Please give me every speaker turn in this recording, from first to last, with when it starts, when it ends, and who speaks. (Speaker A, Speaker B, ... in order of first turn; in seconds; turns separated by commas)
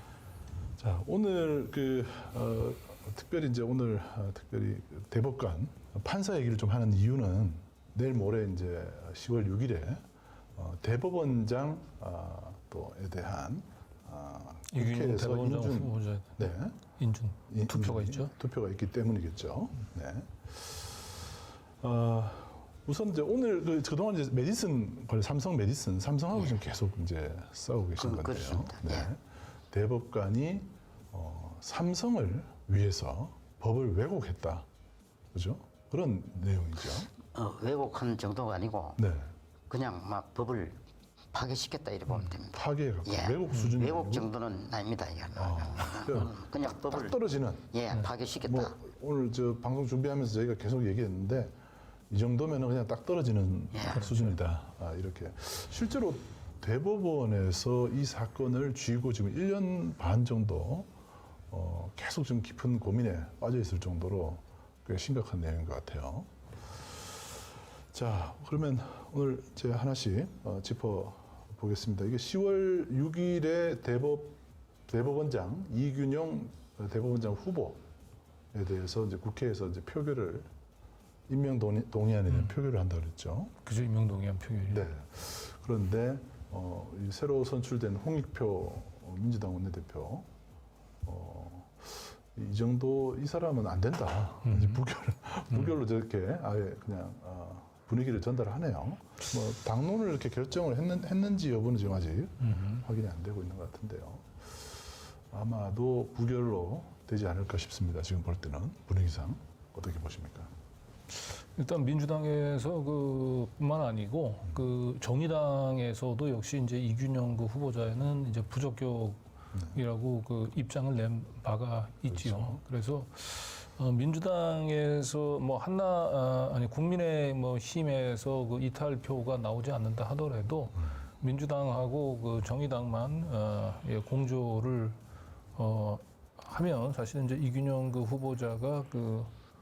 Speaker A: 0.8-10.0, Speaker A: 10.6-16.8, Speaker B: 14.7-18.3, Speaker A: 17.5-21.1, Speaker A: 21.8-29.2, Speaker C: 28.0-29.1, Speaker A: 29.7-34.7, Speaker A: 35.3-37.1, Speaker C: 37.3-39.0, Speaker A: 39.0-39.3, Speaker C: 39.7-40.8, Speaker C: 41.3-47.2, Speaker A: 42.5-44.3, Speaker A: 45.4-47.8, Speaker C: 47.7-48.8, Speaker A: 48.4-51.5, Speaker A: 52.1-60.9, Speaker C: 53.7-54.0, Speaker B: 53.9-54.3, Speaker A: 61.5-66.3, Speaker A: 67.9-77.8, Speaker A: 78.5-80.5, Speaker A: 81.3-83.6, Speaker B: 83.7-84.9, Speaker A: 84.7-90.3, Speaker A: 91.0-104.8, Speaker B: 94.5-94.8, Speaker B: 102.5-102.8, Speaker A: 105.3-110.5, Speaker B: 111.4-135.0, Speaker A: 122.1-122.6, Speaker B: 135.6-139.3